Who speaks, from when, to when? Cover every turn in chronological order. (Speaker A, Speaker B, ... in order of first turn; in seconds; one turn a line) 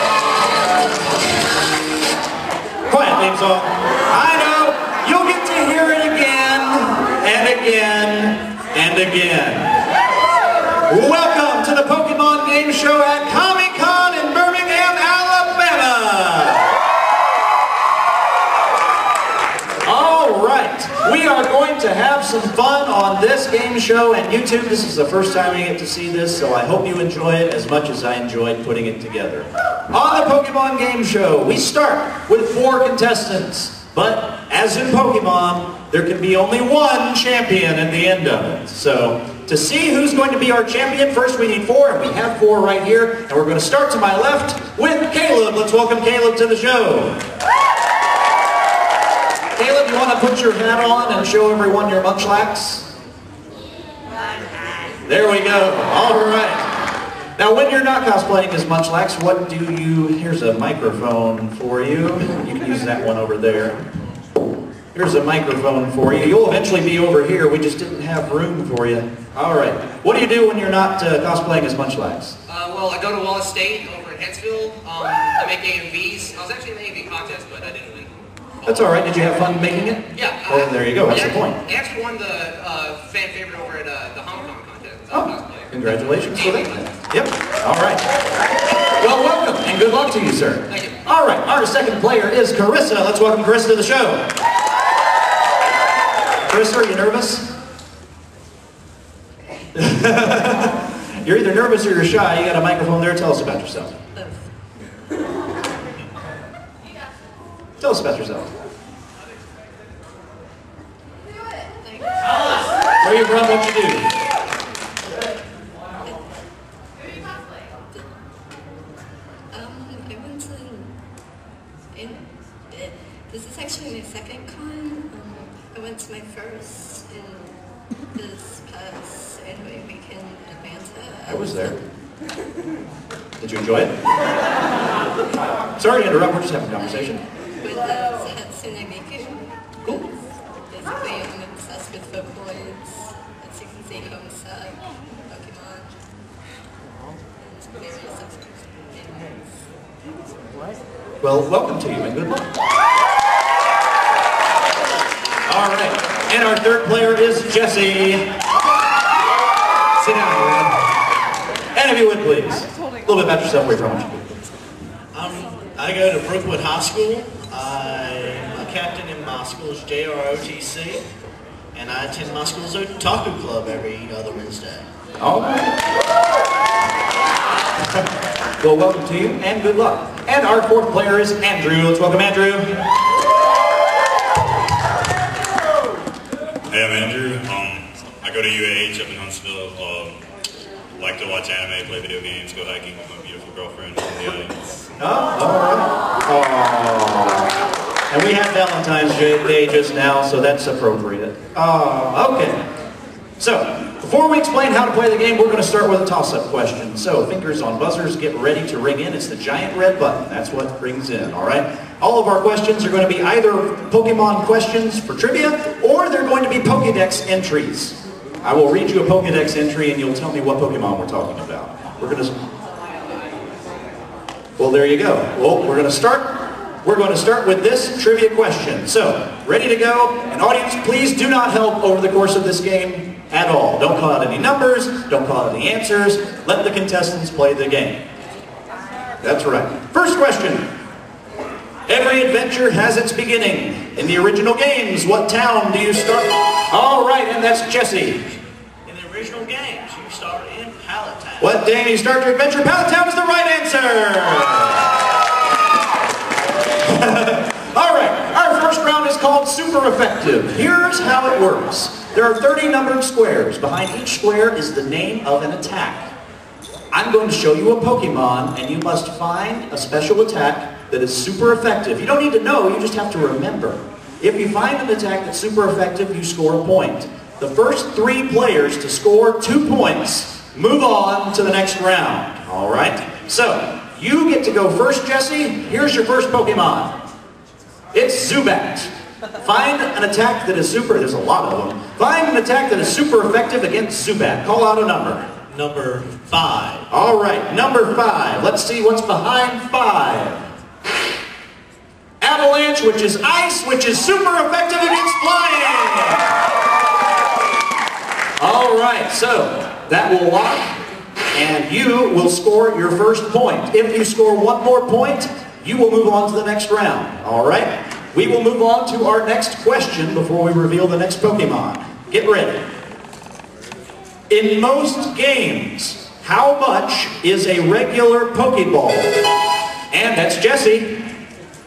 Speaker A: 2.9-9.8
Speaker A: 10.9-16.8
Speaker A: 19.8-47.2
Speaker A: 49.6-52.9
Speaker A: 55.0-56.7
Speaker A: 57.4-63.8
Speaker A: 64.9-72.4
Speaker B: 72.5-78.1
Speaker A: 78.7-81.6
Speaker B: 80.2-85.8
Speaker A: 85.1-88.1
Speaker B: 86.3-86.8
Speaker A: 88.9-94.3
Speaker A: 96.5-97.5
Speaker A: 99.8-104.0
Speaker C: 104.2-104.5
Speaker A: 107.8-108.5
Speaker C: 111.8-112.7
Speaker A: 113.0-114.1
Speaker C: 119.5-120.9
Speaker C: 121.9-127.5
Speaker C: 128.1-131.8
Speaker A: 131.3-131.8
Speaker A: 133.4-133.9
Speaker A: 135.8-137.2
Speaker C: 137.6-145.9
Speaker C: 147.4-149.6
Speaker A: 151.2-152.5
Speaker A: 155.5-158.2
Speaker B: 160.0-160.8
Speaker A: 161.8-164.3
Speaker D: 165.1-171.0
Speaker D: 171.7-174.8
Speaker A: 175.2-175.8
Speaker A: 178.6-182.8
Speaker E: 186.7-190.2
Speaker E: 191.0-194.9
Speaker A: 195.0-197.5
Speaker A: 198.1-202.6
Speaker A: 203.4-222.3
Speaker A: 224.6-238.0
Speaker A: 239.2-240.7
Speaker A: 241.9-248.3
Speaker D: 248.8-251.6
Speaker A: 251.4-254.8
Speaker A: 256.8-266.1
Speaker A: 266.9-286.9
Speaker A: 287.9-288.9
Speaker A: 289.4-295.3
Speaker D: 295.5-296.9
Speaker A: 296.9-300.5
Speaker A: 302.2-306.4
Speaker A: 308.4-310.8
Speaker A: 311.3-322.6
Speaker A: 324.3-329.2
Speaker A: 329.9-331.1